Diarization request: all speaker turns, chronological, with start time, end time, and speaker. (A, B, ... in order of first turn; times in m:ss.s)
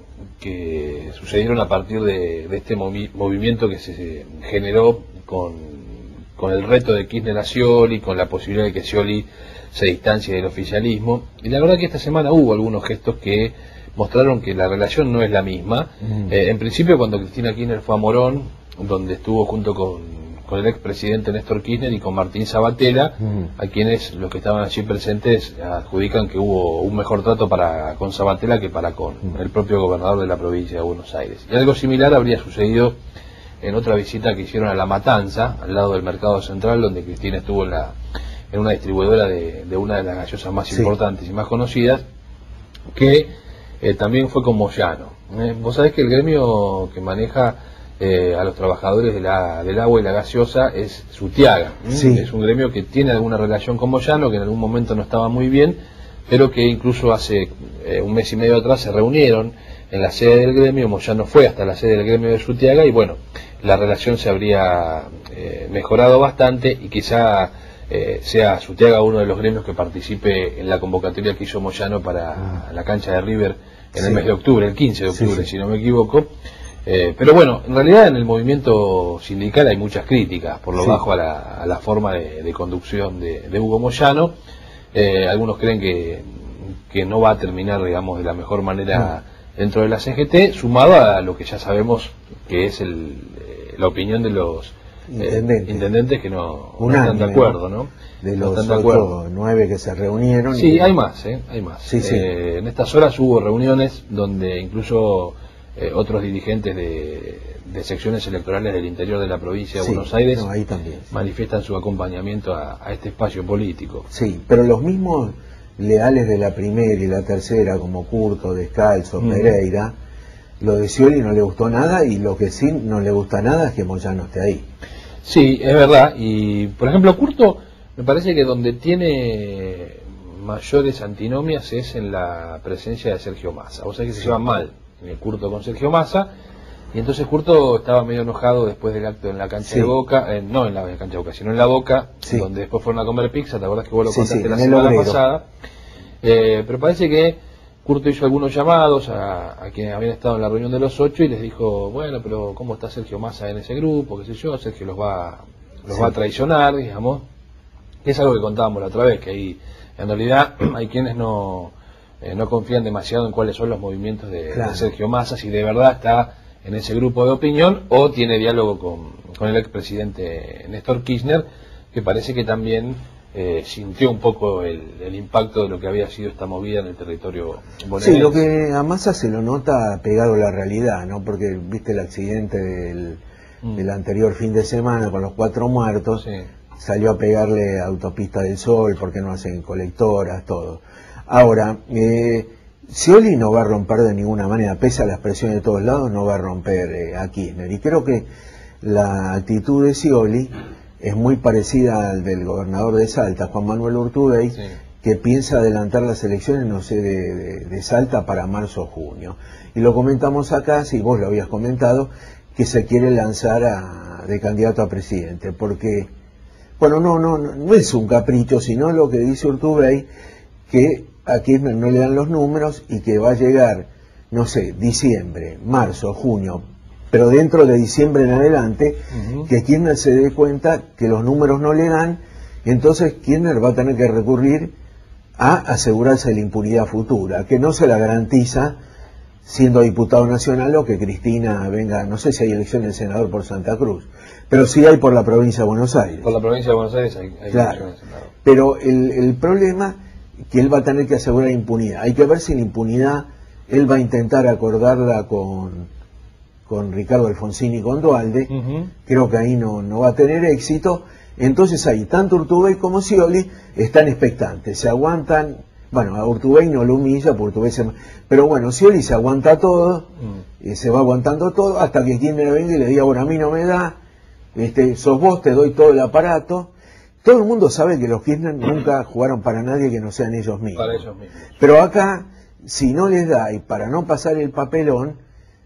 0:00.4-0:32.9 A
0:16.0-0:16.3 B
0:23.2-0:23.5 B
0:33.6-0:37.9 A
0:38.5-0:42.0 A
0:42.9-0:43.3 A
0:43.8-1:16.3 A
0:51.9-0:52.3 B
1:13.9-1:14.2 B
1:15.1-1:15.4 B
1:16.8-1:24.3 A
1:20.8-1:21.0 B
1:24.9-1:39.1 A
1:35.1-1:35.8 B
1:36.8-1:37.6 B
1:38.2-1:40.9 B
1:40.5-1:50.4 A
1:41.8-1:42.3 B
1:49.8-1:51.1 B
1:51.1-1:54.1 A
1:54.1-1:59.9 B
1:59.2-1:59.6 A
2:00.6-2:04.6 B
2:05.2-2:16.3 A
2:16.9-2:25.4 A
2:19.6-2:19.9 B
2:24.0-2:25.2 B
2:26.2-2:37.2 A
2:38.0-2:58.4 A
2:44.5-2:44.9 B
2:58.0-3:03.2 B
3:03.8-3:06.2 B
3:06.2-3:06.5 A
3:06.8-3:18.3 B
3:18.8-3:36.1 B
3:36.8-3:40.1 B
3:40.7-3:54.7 B
3:49.1-3:49.5 A
3:55.4-3:58.8 B
3:59.4-4:06.3 B
4:06.2-4:08.3 A
4:07.5-4:07.9 B
4:08.4-4:10.0 B
4:10.5-4:15.9 B
4:16.7-4:18.5 B
4:18.5-4:18.9 A
4:19.0-4:30.1 B
4:30.6-4:34.0 B
4:34.5-4:36.7 B
4:37.2-4:41.0 B
4:40.8-4:41.5 A
4:41.6-4:45.2 B